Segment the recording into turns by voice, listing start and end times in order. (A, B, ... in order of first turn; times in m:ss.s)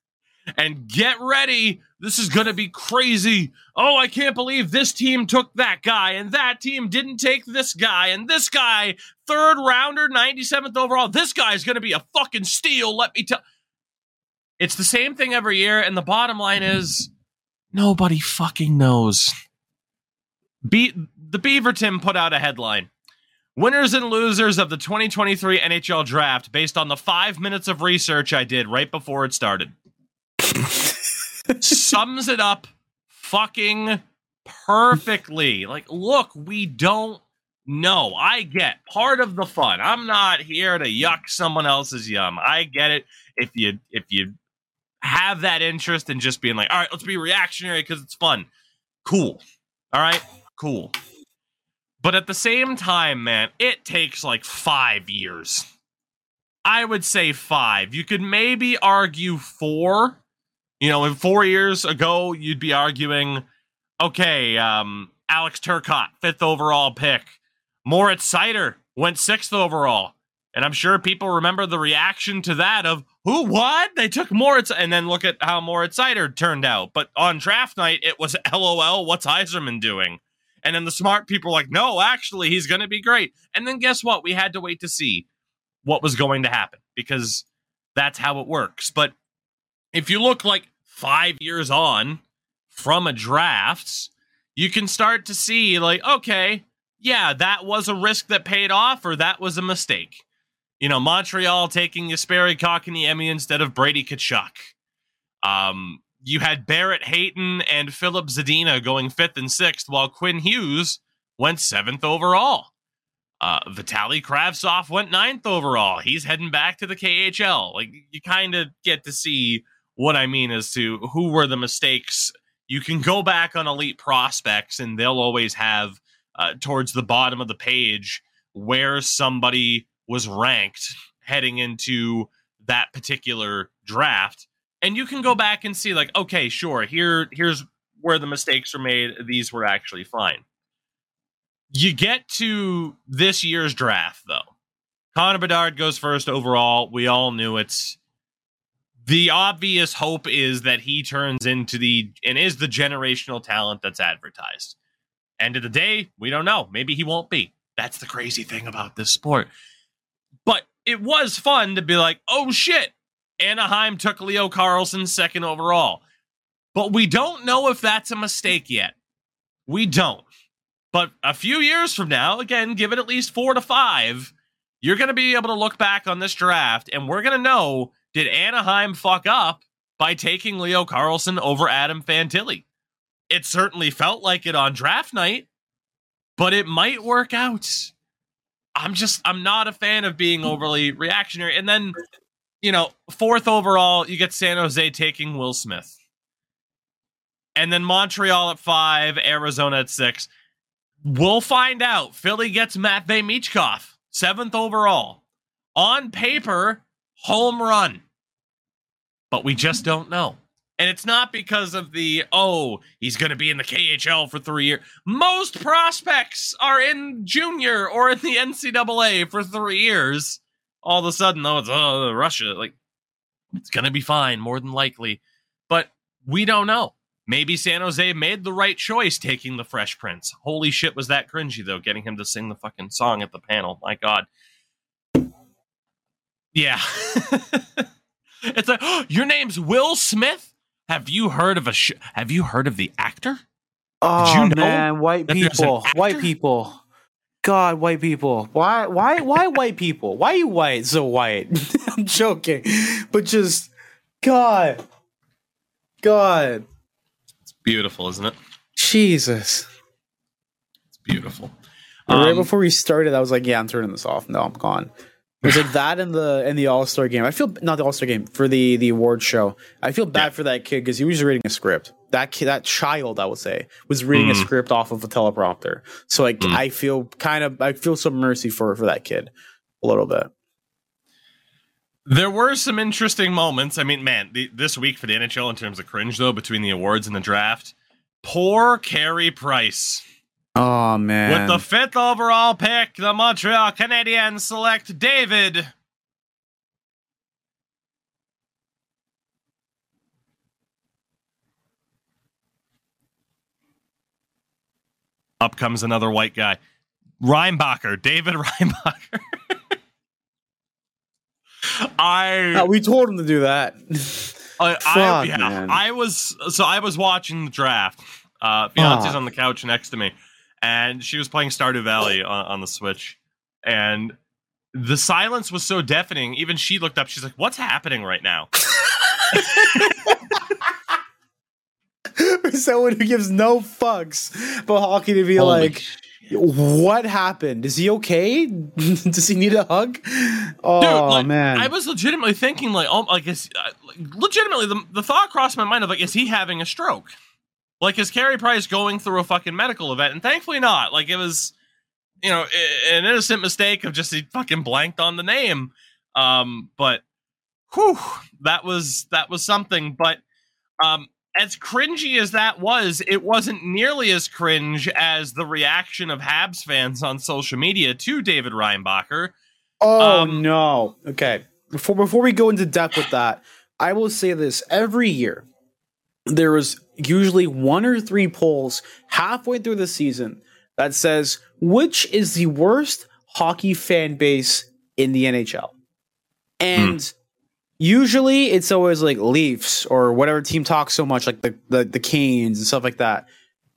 0:00.6-0:13.4 A
0:14.6-0:17.1 A
0:17.7-0:19.3 A
0:20.6-0:22.9 A
0:23.6-0:29.7 A
0:30.5-0:30.9 B
0:31.6-0:44.3 A
0:45.0-0:48.5 A
0:49.0-0:50.9 A
0:52.0-0:55.6 A
0:56.6-1:00.2 A
1:00.8-1:03.4 A
1:04.0-1:25.2 A
1:25.8-1:27.4 A
1:28.0-1:29.1 A
1:29.9-1:40.2 A
1:40.8-1:44.7 A
1:45.4-1:52.7 A
1:53.4-2:20.4 A
2:21.7-2:24.5 A
2:25.1-2:28.0 A
2:29.0-2:34.8 A
2:35.4-2:39.5 A
2:40.4-2:46.0 A
2:46.7-2:48.9 A
2:49.7-2:50.3 A
2:50.9-3:02.6 A
3:03.3-3:05.5 A
3:06.4-3:07.9 A
3:08.8-3:12.0 A
3:12.6-3:15.9 A
3:17.6-3:20.3 A
3:21.0-3:25.2 A
3:25.8-3:28.0 A
3:29.3-3:42.8 A
3:43.6-3:54.3 A
3:56.5-3:57.8 A
3:58.5-4:03.4 A
4:04.0-4:06.8 B
4:04.2-4:06.2 A
4:07.4-4:13.7 B
4:14.2-4:14.8 B
4:16.0-4:16.6 B
4:17.5-4:18.4 A
4:18.8-4:19.7 B
4:21.0-4:21.5 A
4:22.1-4:22.5 A
4:22.1-4:24.9 B
4:25.4-4:40.3 B
4:34.1-4:34.5 A
4:42.0-4:50.0 A
4:50.6-4:51.6 B
4:51.2-4:55.7 A
5:05.4-5:06.6 A
5:07.2-5:09.6 A
5:11.7-5:12.7 A
5:12.5-5:15.8 B
5:14.6-5:24.2 A
5:18.8-5:19.2 B
5:24.7-5:28.5 A
5:28.7-5:30.4 B
5:29.3-5:30.2 A
5:32.1-5:41.7 B
5:35.4-5:36.3 A
5:40.8-5:47.1 A
5:47.8-5:51.5 A
5:52.2-5:57.0 A
5:57.7-6:00.2 A
6:00.8-6:09.3 A
6:09.8-6:15.4 B
6:10.0-6:10.4 A
6:16.3-6:25.7 B
6:26.6-6:27.1 B
6:27.8-6:33.3 B